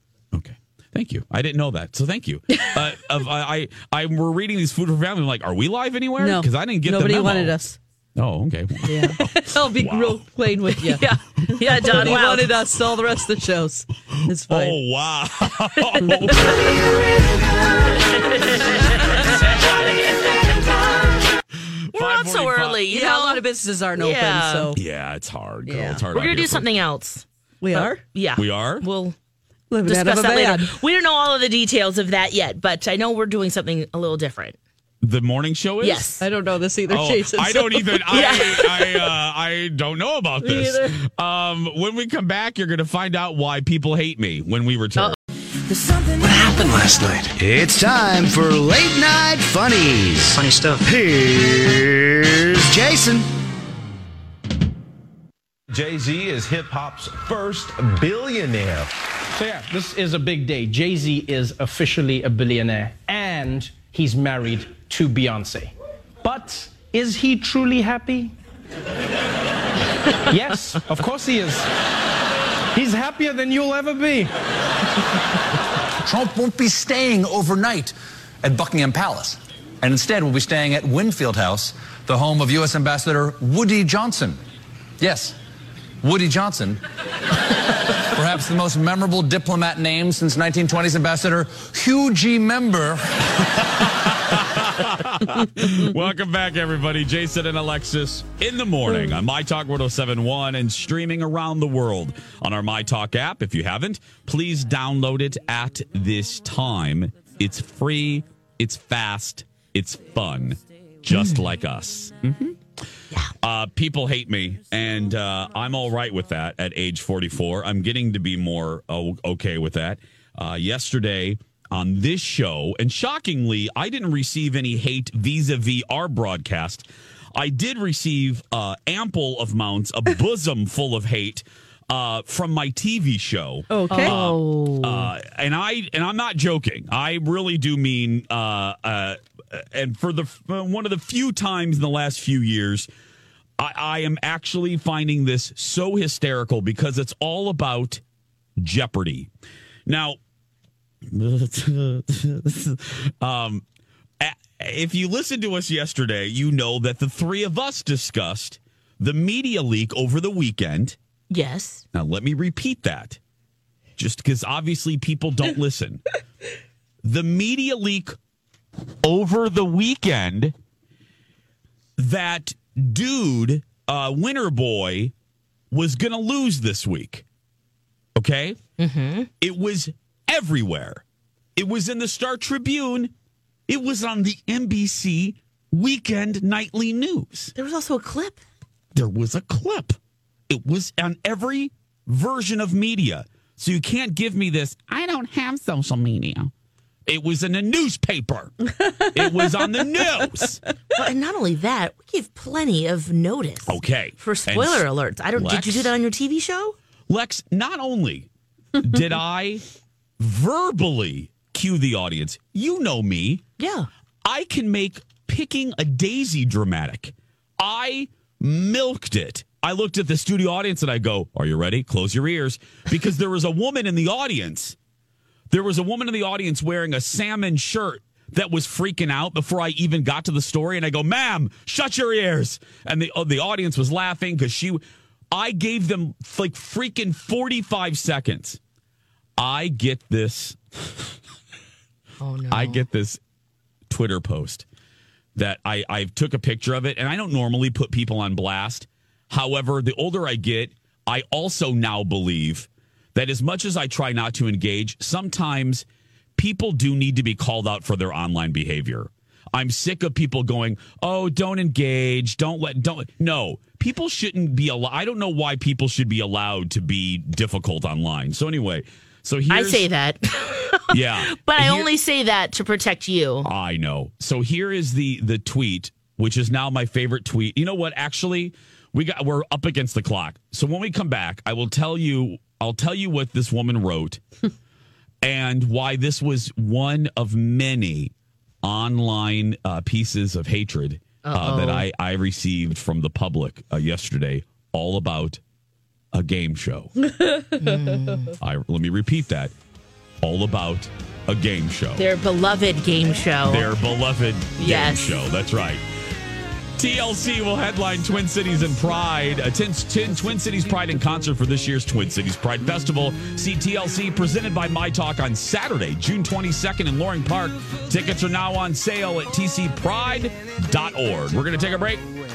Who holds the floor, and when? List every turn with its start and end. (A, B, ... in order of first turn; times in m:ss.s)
0:00.3-0:10.2 A
0:06.2-0:07.8 B
0:08.8-0:14.8 B
0:10.8-0:12.6 C
0:14.1-0:16.6 A
0:15.8-0:16.5 C
0:16.0-0:16.4 B
0:18.1-0:20.3 C
0:21.9-0:22.8 A
0:21.9-0:23.4 C
0:22.9-0:24.8 B
0:24.0-0:24.7 C
0:24.7-0:26.8 A
0:25.6-0:26.0 B
0:26.1-0:29.2 C
0:27.6-0:28.0 B
0:28.4-0:28.8 A
0:29.7-0:30.7 B
0:29.9-0:34.6 C
0:35.0-0:36.1 A
0:35.8-0:36.2 C
0:36.2-0:38.4 B
0:36.9-0:45.1 A
0:38.1-0:39.1 C
0:40.4-0:40.9 C
0:46.3-0:47.3 D
0:47.3-0:48.3 E
0:48.8-0:49.3 D
0:50.6-0:51.3 D
0:51.4-0:51.7 E
0:55.7-0:58.9 F
0:59.4-1:05.7 G
1:06.2-1:08.3 G
1:10.3-1:11.7 G
1:12.7-1:14.3 G
1:16.0-1:24.4 E
1:25.0-1:25.4 E
1:26.0-1:26.8 E
1:28.0-1:33.4 E
1:33.8-1:52.6 A
1:51.1-1:51.4 C
1:53.4-2:22.9 A
2:13.7-2:14.2 B
2:13.9-2:15.1 C
2:23.6-2:28.0 A
2:28.6-2:29.3 A
2:29.9-2:30.2 A
2:31.1-2:33.6 A
2:34.2-2:41.0 A
2:41.3-2:41.8 C
2:41.9-2:43.2 A
2:44.0-2:46.0 A
2:47.0-2:48.2 A
2:49.0-2:50.5 A
2:52.0-2:55.1 A
2:55.7-2:57.2 A
2:58.2-2:58.6 A
2:58.8-2:59.3 C
2:59.4-3:01.0 A
3:01.6-3:03.1 A
3:03.7-3:07.5 A
3:07.6-3:08.4 C
3:08.9-3:10.0 A
3:10.5-3:16.5 A
3:17.1-3:20.6 A
3:21.0-3:26.8 C
3:23.7-3:25.9 A
3:27.1-3:28.3 A
3:28.8-3:29.6 A
3:30.2-3:33.4 A
3:33.6-3:33.9 C
3:34.2-3:44.8 A
3:45.5-3:58.6 A
3:59.4-4:01.1 A
4:02.2-4:02.8 C
4:02.5-4:03.2 A
4:03.9-4:04.6 A
4:05.4-4:15.9 A
4:16.4-4:29.9 A
4:29.5-4:33.5 C
4:30.9-4:31.9 A
4:33.4-4:44.2 A
4:45.2-4:48.1 A
4:48.6-4:55.4 A
4:51.2-4:51.9 C
4:56.1-4:57.0 A
4:57.6-4:58.4 C
4:58.4-4:59.5 A
5:00.2-5:02.0 A
5:02.0-5:03.7 C
5:03.4-5:05.8 A
5:04.6-5:05.2 C
5:06.8-5:22.1 A